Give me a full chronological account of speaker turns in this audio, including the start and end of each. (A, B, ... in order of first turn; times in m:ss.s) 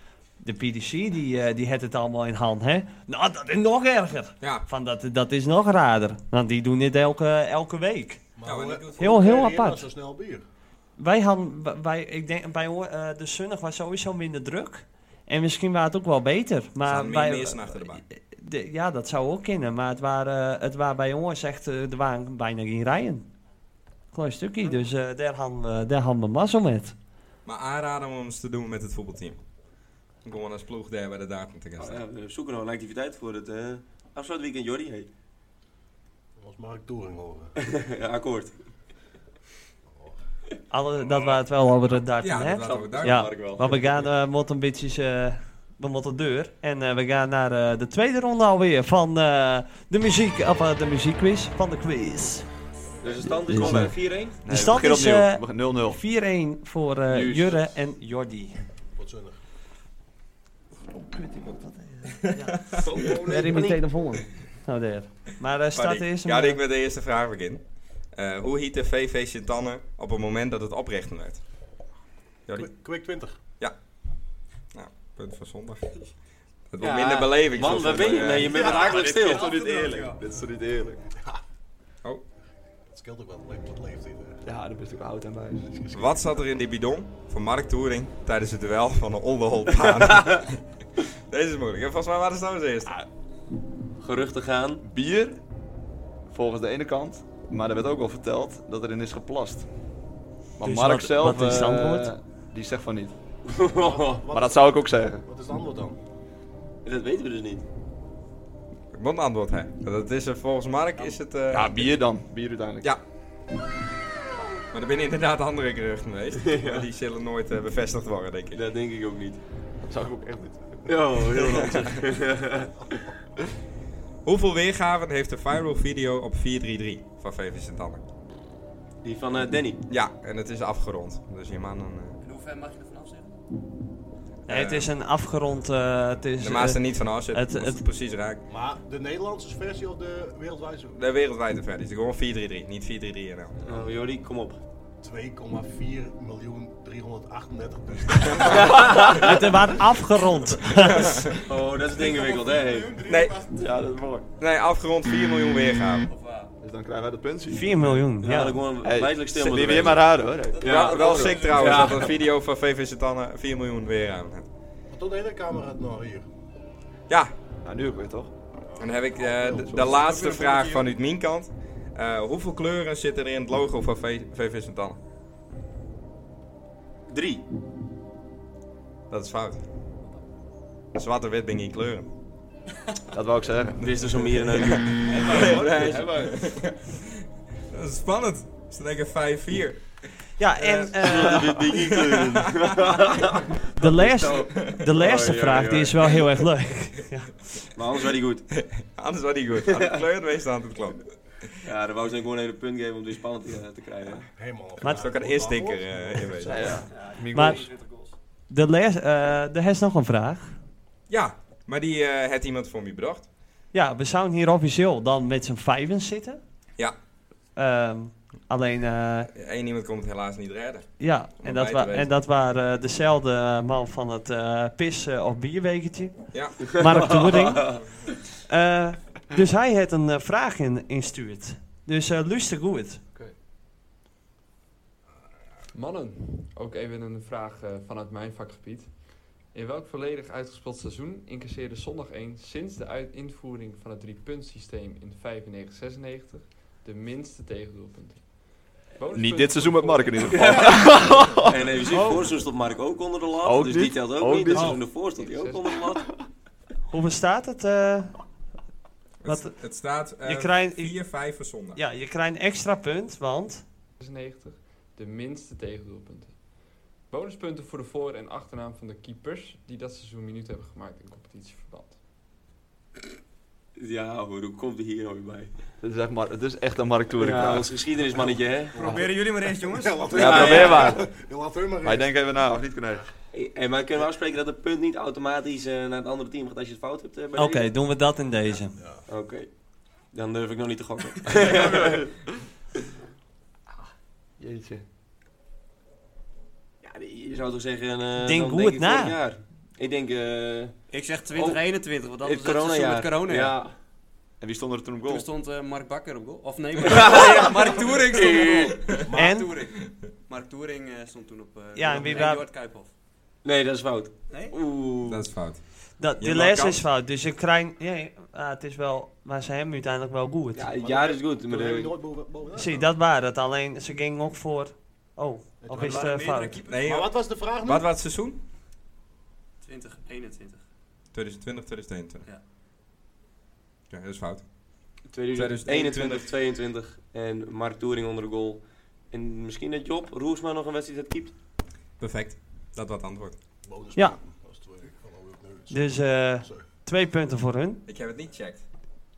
0:00.4-0:08.2 A
0:04.4-0:04.6 B
0:08.4-0:10.4 C
0:08.4-0:09.2 B
0:09.0-0:09.8 A
0:11.0-0:23.3 A
0:16.8-0:18.0 B
0:24.1-0:26.9 A
0:27.4-0:29.4 B
0:30.2-0:32.0 B
0:31.8-0:35.1 D
0:36.4-0:37.5 C
0:37.6-0:38.5 D
0:40.7-0:52.5 A
0:41.0-0:41.4 B
0:42.2-0:43.8 B
0:42.6-0:43.8 D
0:53.0-0:54.4 D
0:53.5-0:56.0 E
0:54.5-0:58.6 A
0:57.1-0:57.7 E
0:58.9-0:59.4 C
1:00.9-1:06.6 A
1:02.2-1:02.9 B
1:02.8-1:03.8 D
1:05.7-1:11.4 B
1:12.5-1:13.4 C
1:14.7-1:16.1 B
1:16.7-1:18.6 B
1:16.8-1:19.5 D
1:17.6-1:21.0 E
1:18.5-1:20.2 F
1:22.9-1:24.4 C
1:24.4-1:25.7 E
1:25.6-1:26.4 C
1:25.9-1:30.6 B
1:31.3-1:33.0 B
1:34.0-1:34.8 D
1:34.8-1:35.4 E
1:36.3-1:39.6 E
1:40.6-1:43.2 E
1:40.6-1:42.1 A
1:43.5-1:44.2 D
1:43.8-1:46.0 C
1:44.3-1:45.2 E
1:46.8-1:47.6 D
1:48.9-1:51.9 B
1:51.5-1:52.9 E
1:54.7-1:58.6 B
1:56.5-1:56.8 D
1:58.5-1:59.4 D
1:59.9-2:00.9 E
2:00.9-2:02.7 D
2:04.2-2:08.0 B
2:09.0-2:09.8 D
2:09.9-2:12.2 B
2:12.2-2:13.3 F
2:14.5-2:14.9 B
2:14.5-2:17.8 A
2:16.4-2:18.4 B
2:18.5-2:21.0 C
2:21.0-2:23.6 B
2:23.6-2:23.9 C
2:23.6-2:24.6 D
2:25.0-2:29.2 C
2:28.6-2:29.2 D
2:28.9-2:31.3 A
2:30.7-2:31.4 B
2:31.4-2:33.0 D
2:31.9-2:33.8 F
2:33.0-2:33.4 B
2:33.5-2:34.2 E
2:34.4-2:36.1 B
2:36.1-2:36.5 F
2:36.6-2:37.7 E
2:37.5-2:38.6 A
2:38.2-2:40.0 D
2:38.8-2:41.5 E
2:40.5-2:42.1 F
2:40.6-2:44.5 B
2:40.6-2:42.1 D
2:44.9-2:46.2 C
2:47.6-2:48.3 E
2:48.7-2:49.8 C
2:48.8-2:55.0 B
2:49.6-2:50.1 E
2:50.0-2:50.9 F
2:57.1-2:57.4 D
2:59.1-2:59.6 B
3:00.9-3:02.1 B
3:03.1-3:04.1 E
3:03.8-3:05.2 D
3:04.7-3:07.0 B
3:05.1-3:06.3 F
3:05.3-3:06.2 E
3:07.7-3:10.1 B
3:10.4-3:11.7 A
3:10.6-3:12.8 B
3:11.0-3:16.0 D
3:13.8-3:17.3 A
3:14.5-3:14.9 B
3:17.8-3:18.4 D
3:18.5-3:21.6 B
3:19.7-3:20.0 D
3:21.6-3:24.3 D
3:24.4-3:26.7 C
3:24.8-3:26.6 B
3:26.4-3:27.6 E
3:26.9-3:28.1 F
3:27.3-3:27.6 A
3:28.5-3:30.6 A
3:31.1-3:33.3 B
3:33.7-3:36.4 A
3:37.6-3:39.3 A
3:39.3-3:40.9 B
3:41.0-3:47.8 A
3:41.4-3:42.1 B
3:46.3-3:46.6 B
3:46.9-3:47.8 D
3:48.5-3:53.0 A
3:55.7-4:10.5 G
4:09.1-4:11.7 E
4:10.3-4:16.1 D
4:11.9-4:12.2 A
4:13.4-4:14.8 E
4:14.5-4:14.8 A
4:15.1-4:15.8 G
4:16.9-4:18.2 A
4:19.2-4:21.8 B
4:19.2-4:21.0 A
4:21.7-4:23.6 A
4:24.0-4:26.4 G
4:27.0-4:32.0 G
4:33.8-4:35.5 D
4:35.8-4:37.7 E
4:37.2-4:38.8 D
4:38.2-4:39.1 C
4:38.7-4:40.8 F
4:39.6-4:42.5 C
4:40.1-4:41.1 E
4:40.1-4:41.0 D
4:41.8-4:43.1 E
4:43.3-4:47.7 D
4:47.4-4:48.8 A
4:48.8-4:49.0 C
4:49.1-4:49.5 D
4:50.1-4:52.0 D
4:51.4-4:52.1 E
4:54.4-4:54.8 E
4:56.8-5:00.7 D
4:58.2-4:59.2 A
5:00.9-5:03.6 F
5:01.3-5:01.6 D
5:02.2-5:03.7 D
5:04.4-5:05.3 E
5:05.0-5:12.9 F
5:06.8-5:08.8 D
5:09.1-5:09.4 C
5:09.1-5:09.5 A
5:11.7-5:12.4 A
5:13.4-5:15.2 D
5:15.0-5:15.6 B
5:16.0-5:20.7 A
5:16.2-5:16.8 B
5:20.6-5:21.9 D
5:20.7-5:22.9 C
5:22.5-5:26.6 A
5:25.6-5:26.2 C
5:25.8-5:26.8 F
5:26.7-5:28.4 B
5:26.8-5:27.9 C
5:29.6-5:30.6 F
5:31.1-5:32.2 B
5:33.9-5:34.4 B
5:35.1-5:41.3 D
5:35.3-5:36.3 B
5:42.0-5:43.4 B
5:43.6-5:46.7 C
5:45.7-5:47.8 A
5:47.9-5:48.6 B